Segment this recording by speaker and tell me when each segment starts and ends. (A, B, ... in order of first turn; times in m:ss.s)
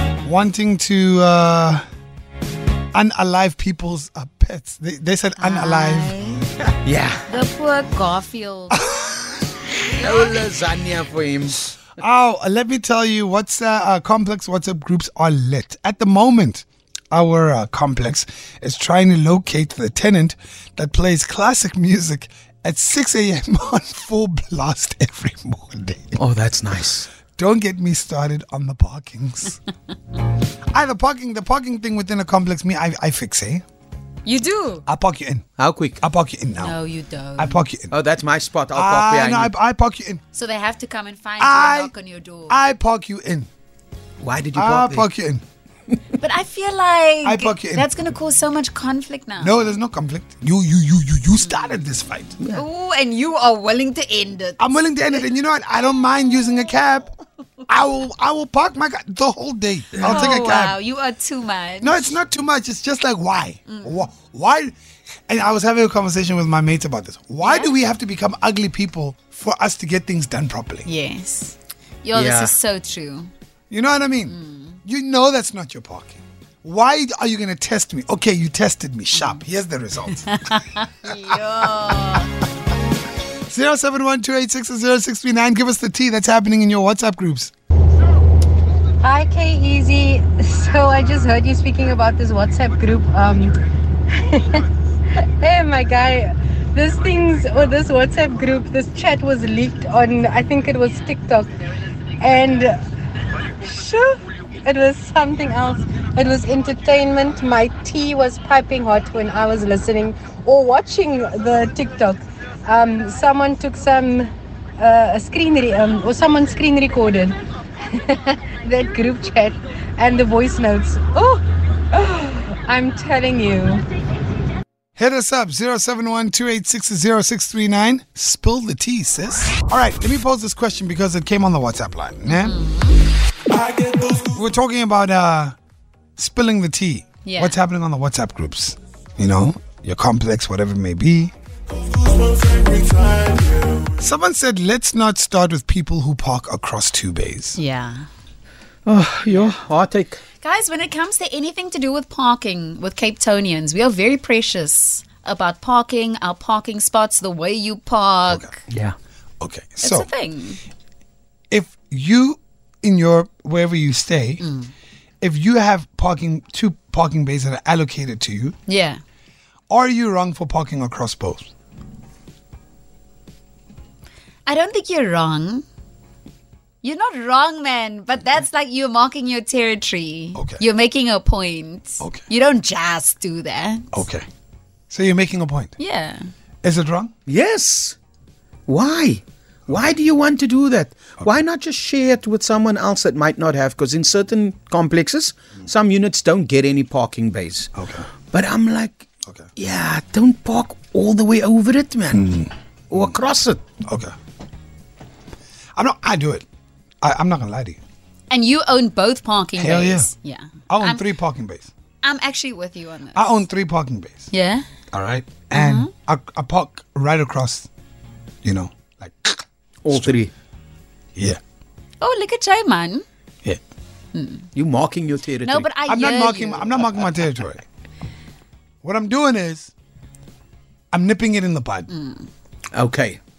0:00.2-0:01.8 A
0:02.9-0:06.4 A
0:05.4-0:06.5 B
0:06.8-0:07.3 C
0:07.3-0:08.8 B
0:08.7-0:09.6 A
0:09.9-0:11.7 C
0:12.0-0:26.2 A
0:26.2-0:27.1 C
0:27.3-0:29.6 A
0:30.7-0:33.6 A
0:34.2-0:34.8 B
0:34.9-0:35.5 A
0:35.6-0:36.0 C
0:36.0-0:36.8 A
0:36.6-0:37.6 B
0:37.4-0:38.0 A
0:37.9-0:39.5 C
0:38.7-0:40.2 A
0:40.3-0:42.6 B
0:41.4-0:41.9 A
0:42.5-0:43.5 A
0:44.2-0:45.1 C
0:44.5-0:45.4 A
0:46.2-0:49.7 B
0:47.2-0:47.9 A
0:49.4-0:52.4 A
0:52.5-0:55.2 B
0:54.6-0:57.1 A
0:57.7-1:00.8 A
1:00.0-1:00.2 C
1:00.0-1:02.1 B
1:01.8-1:04.8 A
1:03.7-1:04.1 B
1:05.3-1:10.9 A
1:07.4-1:07.7 B
1:10.8-1:13.3 B
1:12.1-1:12.5 C
1:13.7-1:20.4 A
1:14.3-1:14.8 B
1:19.2-1:19.4 B
1:20.3-1:22.3 B
1:21.0-1:21.7 A
1:23.5-1:27.5 A
1:29.0-1:33.6 D
1:34.1-1:34.6 D
1:35.2-1:41.5 D
1:42.2-1:42.8 D
1:43.6-2:03.8 D
2:05.0-2:12.6 A
2:12.3-2:13.0 B
2:13.6-2:15.6 A
2:16.2-2:21.3 A
2:17.2-2:17.6 B
2:23.9-2:27.6 A
2:27.6-2:28.1 B
2:28.9-2:30.2 C
2:30.4-2:38.6 B
2:39.4-2:40.1 A
2:39.8-2:40.6 B
2:41.5-2:44.4 A
2:44.4-2:44.7 B
2:45.2-2:48.6 A
2:48.7-2:49.0 B
2:49.7-2:51.5 A
2:54.4-2:55.6 B
2:56.8-3:04.0 B
3:00.3-3:00.6 A
3:03.9-3:04.2 A
3:04.9-3:05.8 A
3:05.8-3:06.3 B
3:06.6-3:07.1 A
3:07.3-3:08.0 C
3:08.7-3:17.7 C
3:17.8-3:18.1 A
3:18.3-3:22.3 C
3:22.1-3:23.2 A
3:22.9-3:23.6 C
3:23.8-3:24.1 A
3:25.8-3:26.4 A
3:27.0-3:27.8 A
3:28.3-3:31.1 B
3:29.6-3:30.1 A
3:30.7-3:31.7 A
3:32.0-3:33.4 B
3:33.1-3:34.3 A
3:34.3-3:34.6 B
3:34.9-3:37.7 A
3:35.5-3:35.9 B
3:38.4-3:40.2 A
3:39.8-3:40.3 C
3:42.0-3:43.0 B
3:44.1-3:44.5 B
3:44.6-3:45.7 C
3:45.4-3:46.9 B
3:45.9-3:47.6 A
3:48.8-3:49.7 A
3:50.9-3:51.9 A
3:51.9-3:52.3 B
3:52.7-3:53.2 C